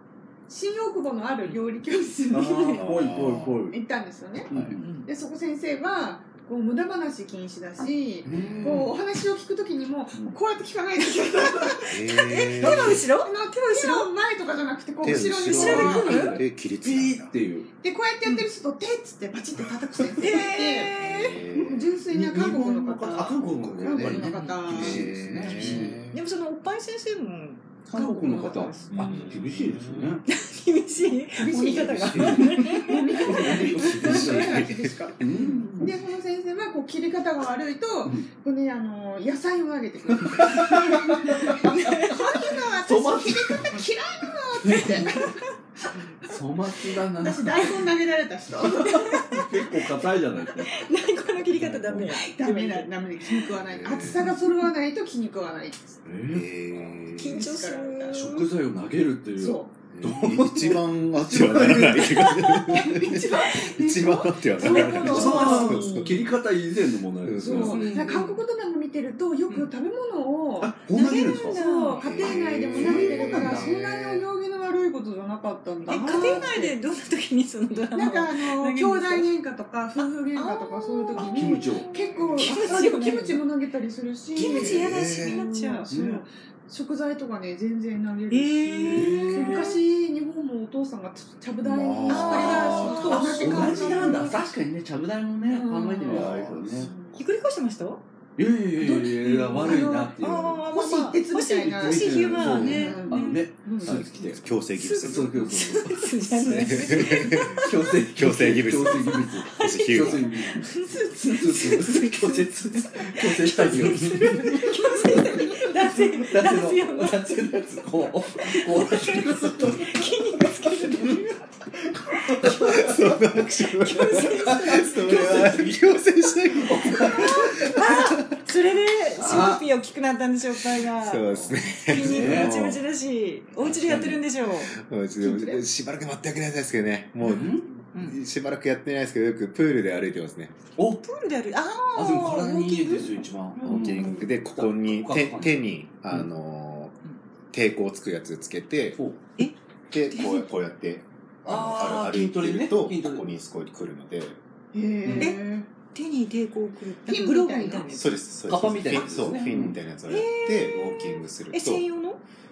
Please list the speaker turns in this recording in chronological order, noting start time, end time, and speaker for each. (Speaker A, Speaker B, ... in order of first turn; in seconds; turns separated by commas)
Speaker A: 0.5-4.5, Speaker B: 2.3-3.8, Speaker C: 2.8-3.6, Speaker B: 4.5-4.9, Speaker C: 4.5-4.8, Speaker D: 4.8-5.1, Speaker A: 5.0-16.3, Speaker B: 8.2-9.0, Speaker C: 8.3-8.9, Speaker D: 11.6-14.1, Speaker C: 11.9-13.0, Speaker C: 15.0-17.4, Speaker B: 15.1-17.7, Speaker D: 15.5-16.4, Speaker A: 17.8-20.9, Speaker D: 20.2-21.4, Speaker C: 21.0-21.8, Speaker B: 21.5-26.0, Speaker A: 21.6-25.1, Speaker C: 23.4-26.2, Speaker D: 24.2-24.7, Speaker D: 26.1-29.5, Speaker B: 27.9-30.2, Speaker C: 28.9-30.2, Speaker D: 30.3-34.5, Speaker A: 31.4-45.3, Speaker C: 31.5-32.6, Speaker B: 32.1-34.6, Speaker C: 33.8-35.0, Speaker B: 35.2-35.9, Speaker D: 35.3-35.7, Speaker B: 40.1-41.6, Speaker D: 40.7-42.5, Speaker B: 42.8-43.8, Speaker B: 44.6-45.2, Speaker D: 45.1-45.5, Speaker B: 46.2-47.9, Speaker A: 47.2-49.4, Speaker D: 48.8-49.6, Speaker B: 49.2-50.9, Speaker D: 50.7-53.5, Speaker B: 51.5-52.2, Speaker A: 52.1-56.0, Speaker C: 53.6-54.3, Speaker B: 56.0-56.5, Speaker C: 56.3-57.5, Speaker A: 56.9-58.2, Speaker D: 57.1-58.5, Speaker B: 58.1-63.0, Speaker A: 59.4-59.7, Speaker C: 59.9-66.4, Speaker A: 62.2-66.3, Speaker D: 64.6-65.8, Speaker B: 64.6-68.1, Speaker C: 67.2-67.9, Speaker A: 67.4-76.8, Speaker D: 67.5-68.4, Speaker B: 70.6-71.6, Speaker D: 70.9-72.1, Speaker C: 72.0-74.3, Speaker B: 72.2-73.8, Speaker D: 75.9-79.3, Speaker B: 76.0-76.4, Speaker A: 77.9-94.4, Speaker D: 80.0-83.5, Speaker B: 81.2-82.2, Speaker D: 84.3-85.9, Speaker C: 84.4-85.5, Speaker B: 85.9-86.2, Speaker D: 88.3-89.8, Speaker B: 88.8-89.7, Speaker C: 91.6-93.8, Speaker D: 92.1-94.3, Speaker B: 93.1-96.9, Speaker A: 95.5-97.2, Speaker C: 96.1-96.9, Speaker D: 97.2-98.0, Speaker B: 98.4-100.7, Speaker A: 98.8-104.0, Speaker D: 99.2-103.5, Speaker B: 101.7-120.1, Speaker C: 103.8-105.6, Speaker D: 104.7-107.7, Speaker C: 106.5-110.7, Speaker D: 109.5-117.6, Speaker A: 114.8-115.7, Speaker D: 118.4-121.4, Speaker B: 120.9-121.3, Speaker D: 122.1-125.5, Speaker B: 122.1-123.4, Speaker C: 122.6-127.3, Speaker B: 124.2-127.7, Speaker A: 126.9-127.9, Speaker D: 127.5-134.7, Speaker B: 129.2-129.6, Speaker C: 130.8-132.8, Speaker B: 131.3-132.7, Speaker C: 133.6-140.6, Speaker B: 133.8-134.2, Speaker A: 135.2-135.6, Speaker B: 137.2-137.7, Speaker D: 137.4-138.2, Speaker B: 140.8-141.0, Speaker D: 141.0-143.9, Speaker B: 141.9-146.3, Speaker A: 143.6-144.2, Speaker C: 143.6-147.0, Speaker C: 147.5-149.0, Speaker C: 149.9-154.4, Speaker D: 150.1-150.5, Speaker B: 151.5-153.3, Speaker A: 154.7-155.7, Speaker B: 155.0-155.4, Speaker D: 155.2-158.2, Speaker A: 157.1-158.1, Speaker C: 157.9-161.9, Speaker B: 158.5-159.8, Speaker D: 160.1-162.2